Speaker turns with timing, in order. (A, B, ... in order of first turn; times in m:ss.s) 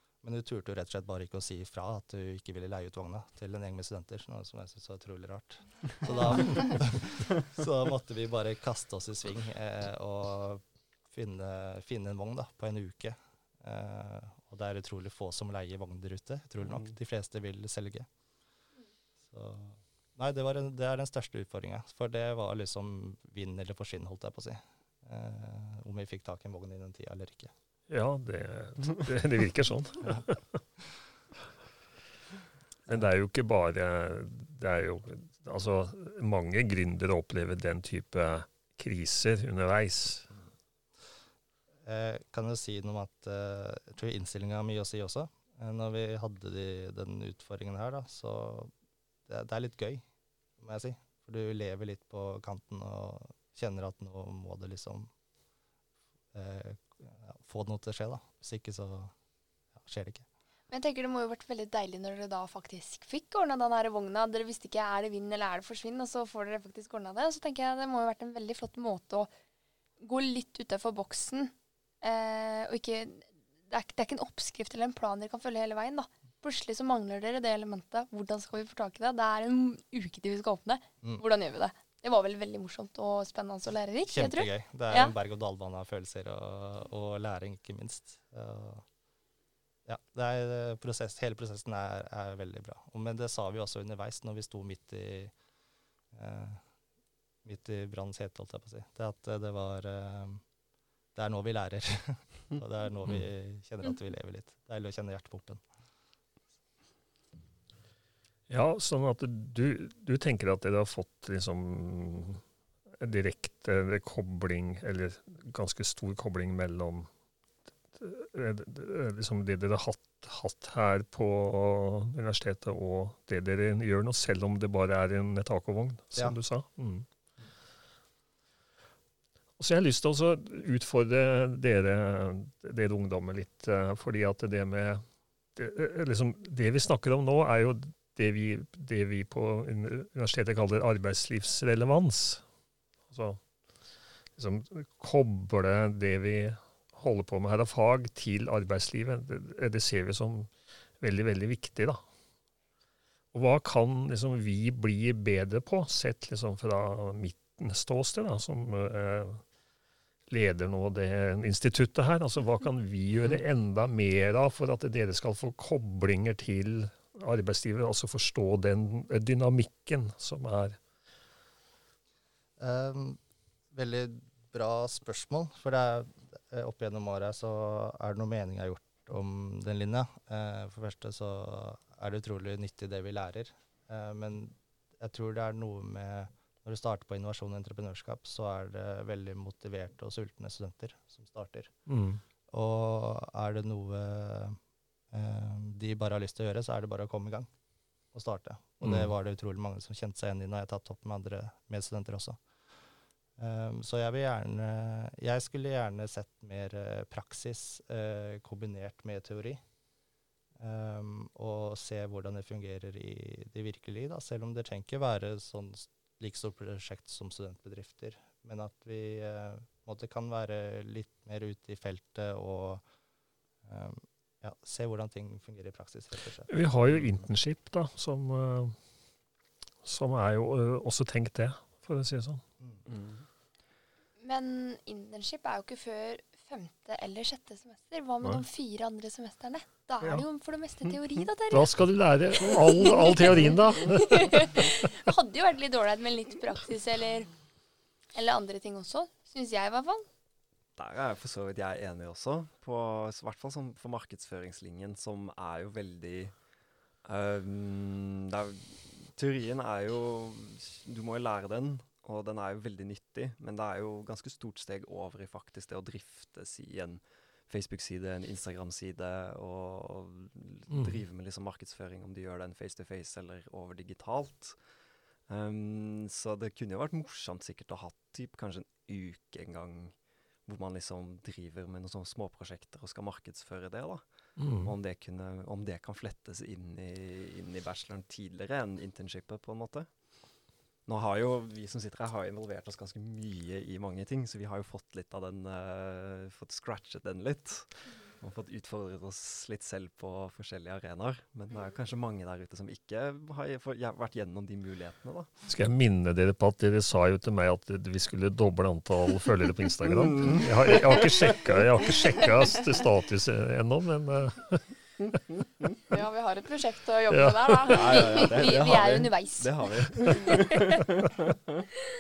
0:00.2-0:18.1 A
0:19.3-0:27.5 A
0:27.9-0:30.6 B
0:32.9-0:40.3 B
0:41.8-0:48.7 A
0:49.3-0:50.0 A
0:50.6-0:55.1 A
0:56.3-0:59.1 A
0:59.8-1:00.2 A
1:00.7-1:09.3 C
1:10.0-1:25.1 C
1:24.1-1:28.8 A
1:29.8-1:35.3 A
1:36.1-1:36.6 A
1:37.4-1:40.4 A
1:41.1-1:45.6 A
1:48.5-1:52.4 B
1:53.0-1:57.1 B
1:57.9-2:07.1 B
2:09.6-2:15.0 B
2:15.5-2:22.4 B
2:23.1-2:23.4 B
2:24.4-2:32.0 B
2:33.3-2:39.4 B
2:40.3-2:50.8 B
2:52.6-2:53.2 A
2:53.7-3:11.7 A
3:11.9-3:12.2 B
3:12.5-3:14.6 A
3:15.1-3:17.5 A
3:18.1-3:22.4 A
3:18.8-3:19.1 B
3:23.4-3:29.6 A
3:30.6-3:42.8 A
3:43.6-3:46.5 A
3:46.5-3:48.8 B
3:49.8-3:52.4 B
3:52.9-3:53.2 D
3:54.2-4:01.8 C
4:01.5-4:04.5 B
4:02.3-4:07.3 C
4:08.1-4:10.1 C
4:10.8-4:16.4 D
4:17.0-4:34.6 D
4:30.7-4:31.0 B
4:35.2-4:50.0 D
4:44.4-4:44.7 B
4:50.8-5:05.3 D
5:05.5-5:14.8 B
5:09.9-5:11.0 D
5:15.9-5:18.5 E
5:17.1-5:18.2 B
5:17.7-5:21.6 D
5:18.0-5:20.7 C